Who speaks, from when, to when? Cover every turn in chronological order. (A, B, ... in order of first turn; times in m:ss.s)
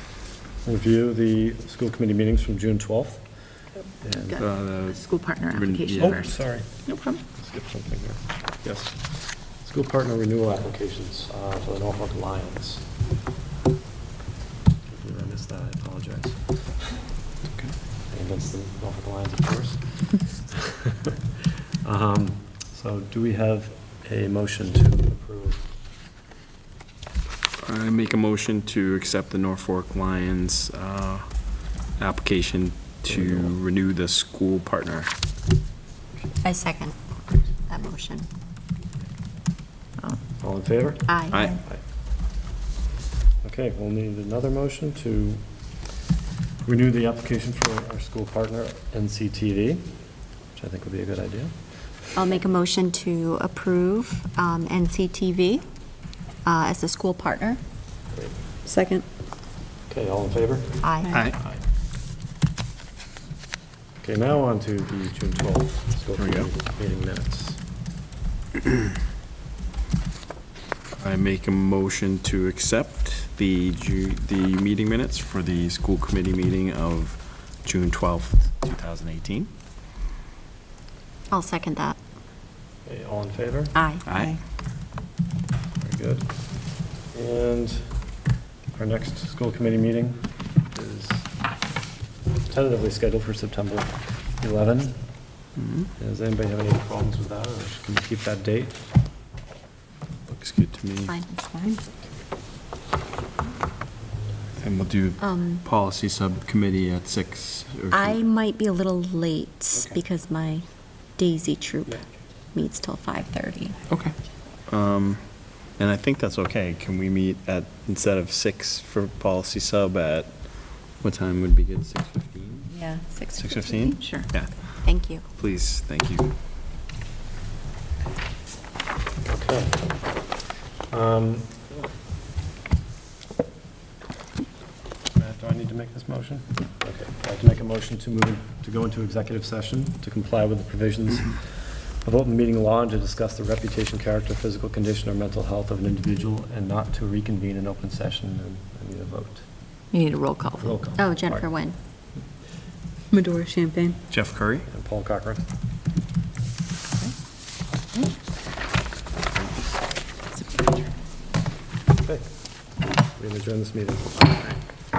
0:00.6-0:03.2 A
0:04.0-0:04.4 A
0:04.3-0:06.3 B
0:04.4-0:06.2 C
0:05.9-0:06.7 A
0:06.8-0:07.2 B
0:07.3-0:12.8 A
0:14.9-0:16.6 A
0:18.1-0:21.2 A
0:21.8-0:25.6 A
0:27.6-0:35.1 C
0:33.0-0:33.5 A
0:36.4-0:36.9 D
0:37.7-0:38.3 D
0:40.4-0:41.8 A
0:41.1-0:41.5 D
0:41.3-0:41.6 C
0:43.4-0:45.4 A
0:46.6-0:49.9 A
0:50.6-0:51.6 A
0:52.1-0:55.6 D
0:56.4-0:57.6 D
0:58.6-0:59.0 B
0:59.9-1:00.8 A
1:00.8-1:01.2 D
1:01.1-1:01.4 C
1:04.0-1:07.6 A
1:06.1-1:06.5 C
1:11.0-1:19.5 C
1:21.3-1:22.0 D
1:22.8-1:23.8 A
1:23.7-1:24.0 D
1:24.0-1:24.4 C
1:25.8-1:26.4 A
1:27.1-1:28.0 A
1:28.7-1:31.3 A
1:32.5-1:35.0 A
1:35.6-1:35.8 C
1:36.0-1:38.8 A
1:40.3-1:41.2 C
1:41.2-1:41.8 B
1:44.6-1:48.2 C
1:45.2-1:45.6 D
1:47.9-1:50.6 D
1:51.2-1:52.0 D
1:52.5-1:53.8 D
1:53.9-1:54.1 C
1:54.7-2:02.7 C
2:02.7-2:04.0 D
2:03.4-2:06.3 C
2:03.9-2:04.3 B
2:04.8-2:05.2 D
2:09.2-2:09.9 A
2:10.9-2:11.6 A
2:15.1-2:29.4 A
2:29.9-2:30.8 B
2:30.6-2:31.5 A
2:30.9-2:31.7 D
2:33.1-2:34.0 B
2:34.1-2:34.6 C
2:34.7-2:35.5 A
2:40.3-2:40.8 B
2:42.0-2:42.3 A
2:43.1-2:44.4 A